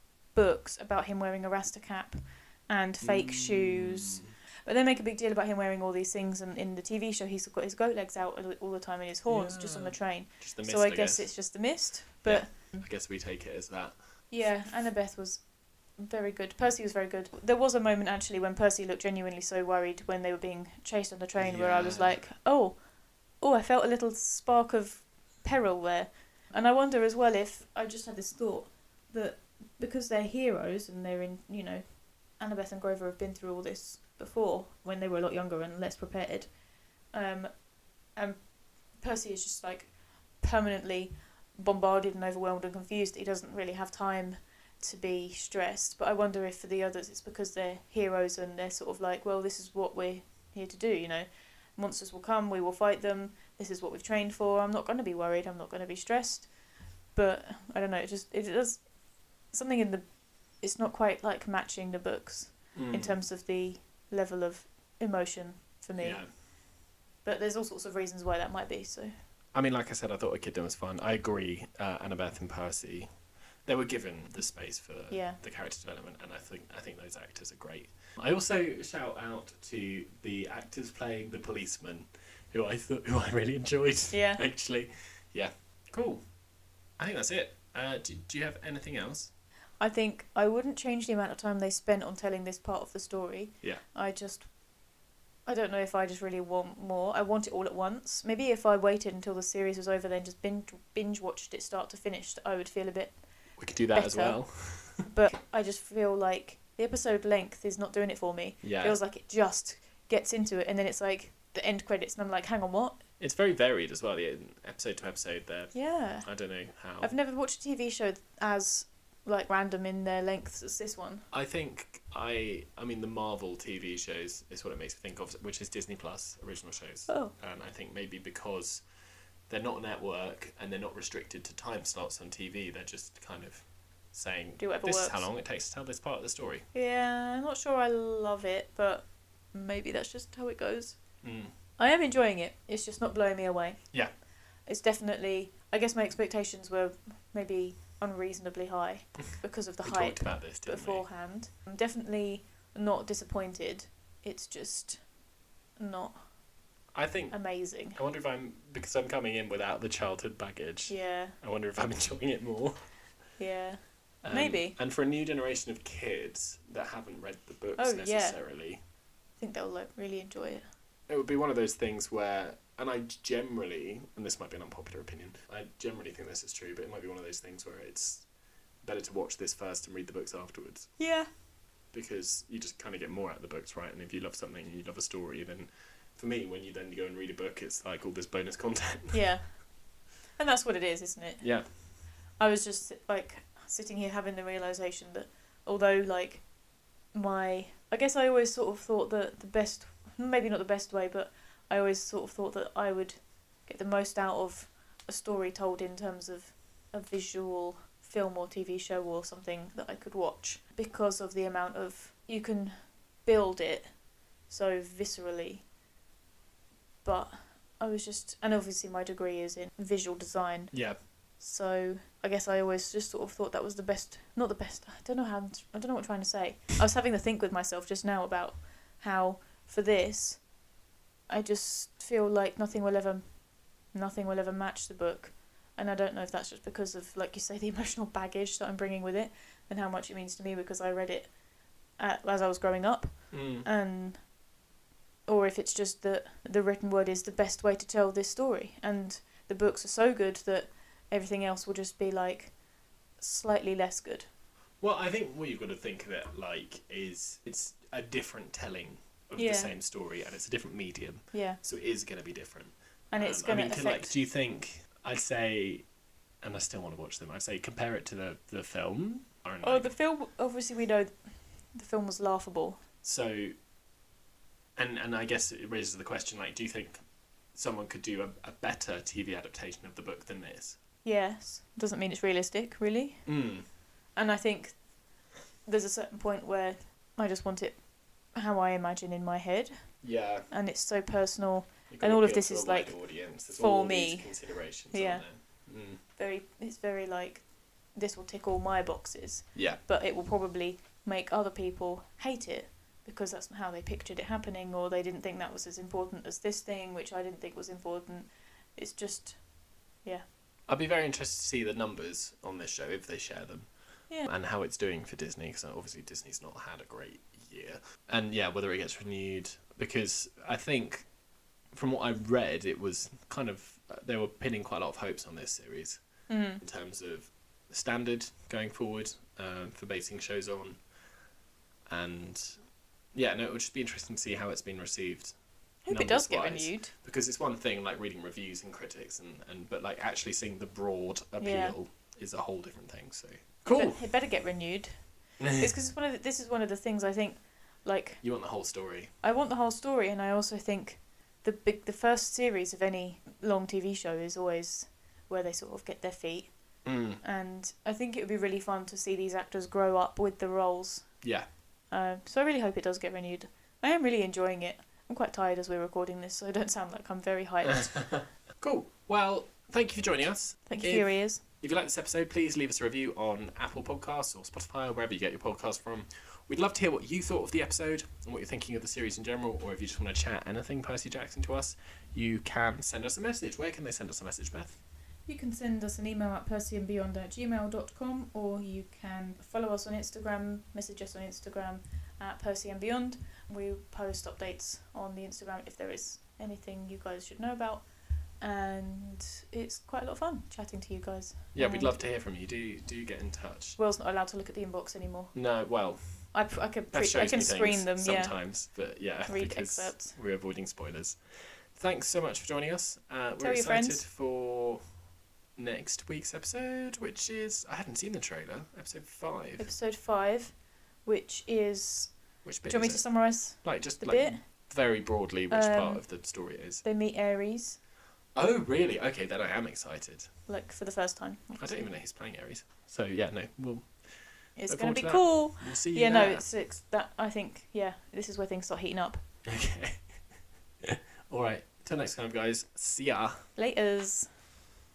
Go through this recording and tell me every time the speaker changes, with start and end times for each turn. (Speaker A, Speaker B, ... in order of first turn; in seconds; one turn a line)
Speaker A: 0.3-12.9
Speaker B: 3.0-4.3
Speaker B: 9.3-14.6
Speaker A: 14.3-36.5
Speaker B: 21.4-22.2
Speaker A: 37.1-56.5
Speaker A: 57.1-66.5
Speaker B: 62.7-63.2
Speaker B: 66.0-66.3
Speaker A: 67.2-69.1
Speaker B: 69.5-73.1
Speaker B: 73.6-86.2
Speaker A: 75.1-75.4
Speaker A: 84.1-84.4
Speaker B: 87.0-89.3
Speaker A: 89.8-94.5
Speaker A: 95.5-113.0
Speaker B: 103.5-105.1
Speaker B: 108.6-109.0
Speaker B: 113.2-117.1
Speaker A: 115.7-121.2
Speaker B: 121.3-128.9
Speaker A: 127.1-127.3
Speaker B: 129.5-136.6
Speaker A: 134.6-135.3
Speaker A: 136.7-141.0
Speaker B: 141.2-141.5
Speaker A: 141.8-144.0
Speaker A: 144.7-155.0
Speaker B: 149.8-151.1
Speaker A: 155.8-156.2
Speaker B: 156.9-163.0
Speaker A: 157.3-158.0
Speaker A: 160.9-161.3
Speaker A: 163.4-164.8
Speaker B: 164.2-168.8
Speaker A: 167.8-168.4
Speaker A: 169.4-170.6
Speaker B: 171.1-178.3
Speaker B: 178.8-181.1
Speaker A: 181.0-181.3
Speaker B: 181.9-189.2
Speaker A: 189.1-191.8
Speaker B: 191.4-191.7
Speaker A: 192.4-196.5
Speaker A: 197.1-215.7
Speaker A: 217.0-230.5
Speaker B: 220.7-221.0
Speaker A: 231.3-241.4
Speaker A: 241.9-244.3
Speaker B: 243.3-243.7
Speaker A: 245.3-252.6
Speaker A: 253.2-254.2
Speaker B: 254.8-265.9
Speaker A: 259.4-259.7
Speaker A: 261.3-261.6
Speaker A: 263.1-264.1
Speaker B: 266.4-269.9
Speaker A: 269.6-272.8
Speaker B: 273.0-273.5
Speaker B: 274.8-277.0
Speaker B: 277.5-280.8
Speaker A: 281.0-283.4
Speaker B: 283.2-283.6
Speaker A: 284.1-284.8
Speaker A: 285.6-310.2
Speaker B: 290.0-290.5
Speaker B: 291.9-296.0
Speaker B: 299.5-299.8
Speaker B: 310.7-321.1
Speaker B: 321.7-330.9
Speaker A: 326.3-326.6
Speaker B: 331.9-344.0
Speaker A: 335.8-336.9
Speaker A: 341.4-341.8
Speaker A: 343.7-348.5
Speaker B: 348.2-349.1
Speaker A: 349.2-361.2
Speaker B: 356.8-357.2
Speaker B: 361.2-361.5
Speaker A: 361.9-368.2
Speaker B: 368.1-384.8
Speaker A: 370.6-371.4
Speaker A: 385.2-402.0
Speaker B: 401.5-403.8
Speaker A: 403.8-405.4
Speaker B: 405.3-414.9
Speaker A: 406.3-408.7
Speaker A: 409.2-410.1
Speaker A: 413.4-414.0
Speaker B: 415.6-419.7
Speaker A: 419.6-424.7
Speaker B: 422.4-426.8
Speaker A: 425.5-427.8
Speaker B: 428.3-430.3
Speaker A: 430.5-431.9
Speaker B: 431.6-436.4
Speaker A: 434.6-439.2
Speaker B: 439.4-440.3
Speaker B: 440.8-443.5
Speaker A: 443.6-444.4